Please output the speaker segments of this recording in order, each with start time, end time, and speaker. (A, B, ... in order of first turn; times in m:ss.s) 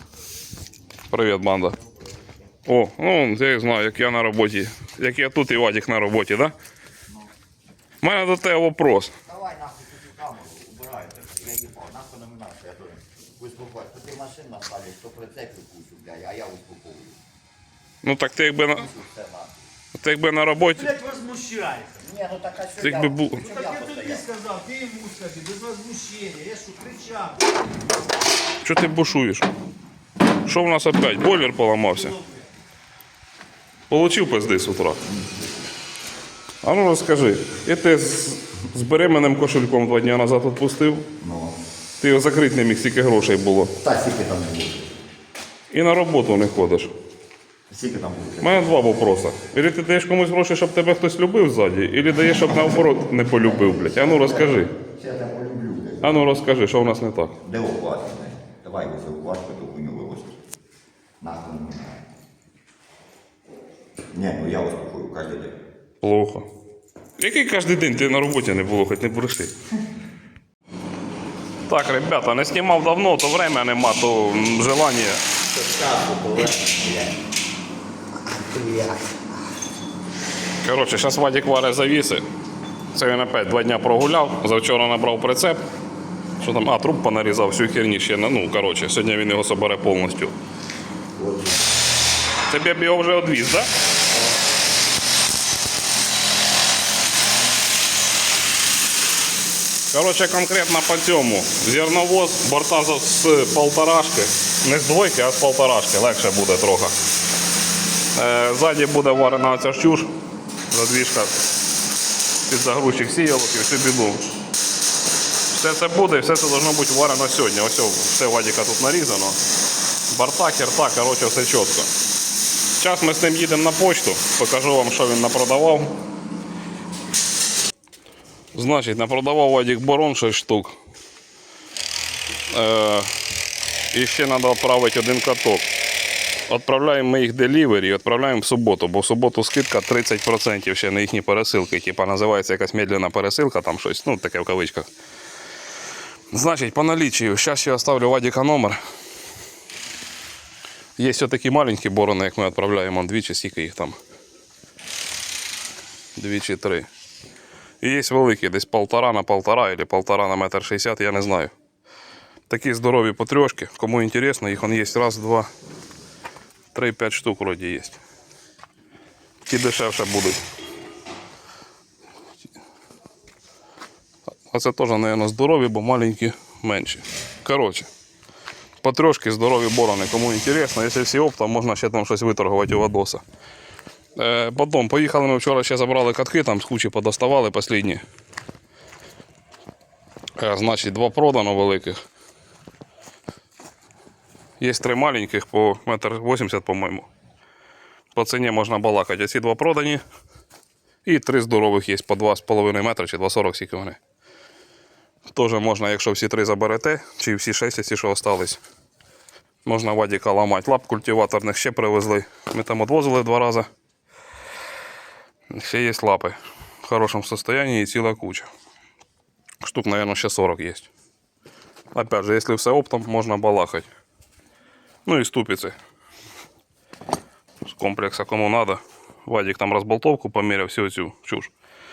0:01.1-0:01.8 A
0:02.6-0:06.5 A
0:08.0-0:09.1 A
0:09.2-0:17.2 B
0:18.0-0:18.9 A
0:18.8-0:19.6 B
0:19.9-0:21.0 A
0:21.0-0:24.6 B
0:21.2-0:21.8 C
0:22.8-0:23.5 A
0:24.4-0:27.4 C
0:28.6-0:29.5 A
0:30.4-0:32.2 A
0:33.9-0:35.0 A
0:36.6-0:41.1 A
0:41.2-0:41.6 B
0:42.0-0:43.7 A
0:43.8-0:44.9 B
0:45.7-0:46.9 A
0:47.7-0:48.8 B
0:48.4-0:54.7 A
0:53.4-0:56.3 B
0:56.0-0:57.3 A
0:57.4-1:00.4 B
1:01.2-1:02.0 B
1:04.1-1:05.5 B
1:06.0-1:06.4 A
1:07.2-1:09.5 A
1:11.7-1:15.2 A
1:15.5-1:17.2 B
1:18.3-1:19.1 B
1:20.6-1:22.2 A
1:22.9-1:25.6 A
1:26.4-1:30.3 A
1:31.2-1:31.6 B
1:32.5-1:33.7 A
1:39.9-1:46.9 A
1:48.1-1:50.1 A
1:50.7-1:51.3 A
1:52.5-1:54.2 A
1:55.5-1:59.4 A
2:00.1-2:01.9 A
2:02.8-2:05.9 A
2:08.5-2:10.7 A
2:12.5-2:13.1 A
2:13.9-2:15.6 A
2:16.5-2:24.9 A
2:26.3-2:28.8 A
2:31.0-2:34.0 A
2:36.2-2:36.9 A
2:37.8-2:41.5 A
2:42.5-2:45.5 A
2:46.7-2:48.0 A
2:49.4-2:50.4 A
2:54.5-2:57.9 A
2:58.8-3:03.2 A
3:04.2-3:08.0 A
3:10.4-3:12.0 A
3:14.6-3:17.1 A
3:18.1-3:20.0 A
3:21.0-3:24.0 A
3:25.3-3:28.6 A
3:29.6-3:33.7 A
3:35.5-3:38.5 A
3:39.6-3:40.9 A
3:41.9-3:43.9 A
3:45.0-3:45.7 A
3:47.6-3:51.5 A